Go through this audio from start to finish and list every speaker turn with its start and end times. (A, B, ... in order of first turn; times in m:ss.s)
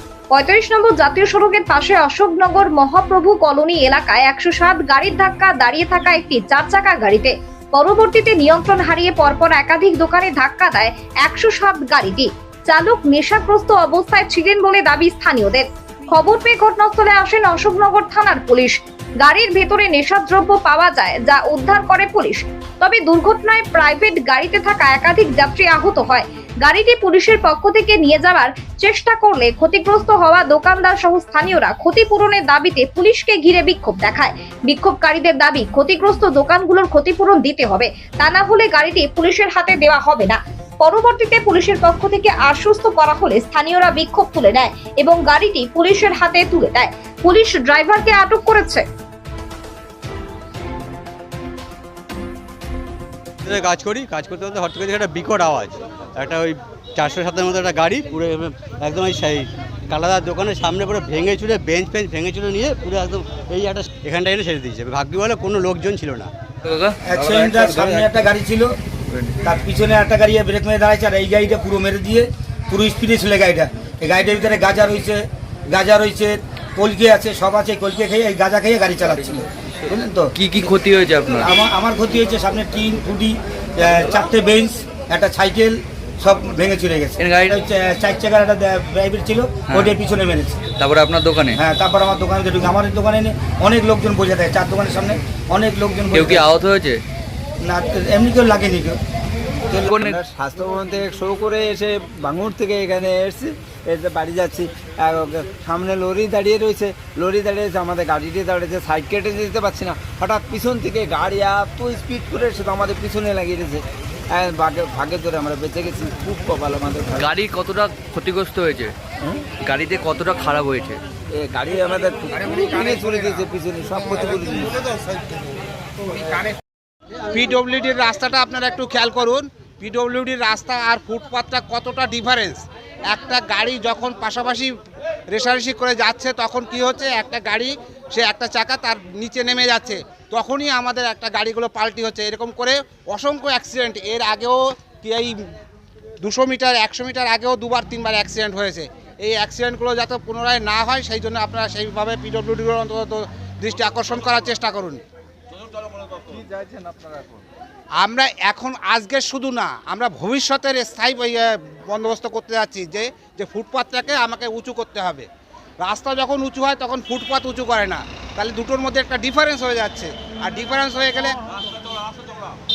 0:00.3-0:48.8 A
0:53.4-1:06.3 B
1:06.6-1:07.0 C
1:07.0-1:08.8 D
1:09.1-1:09.4 C
1:09.4-1:20.7 D
1:19.3-1:21.5 C
1:21.4-1:30.6 D
1:27.2-1:27.6 C
1:29.7-1:30.0 C
1:30.8-1:31.6 C
1:31.6-1:36.5 D
1:36.1-1:37.0 C
1:37.6-1:39.0 D
1:39.7-1:40.2 C
1:40.1-1:57.3 E
1:57.2-1:58.9 C
1:59.6-2:01.0 C
2:01.3-2:04.8 E
2:07.3-2:14.7 F
2:15.3-2:25.4 F
2:26.2-2:35.0 F
2:38.0-2:45.3 F
2:45.8-2:51.4 F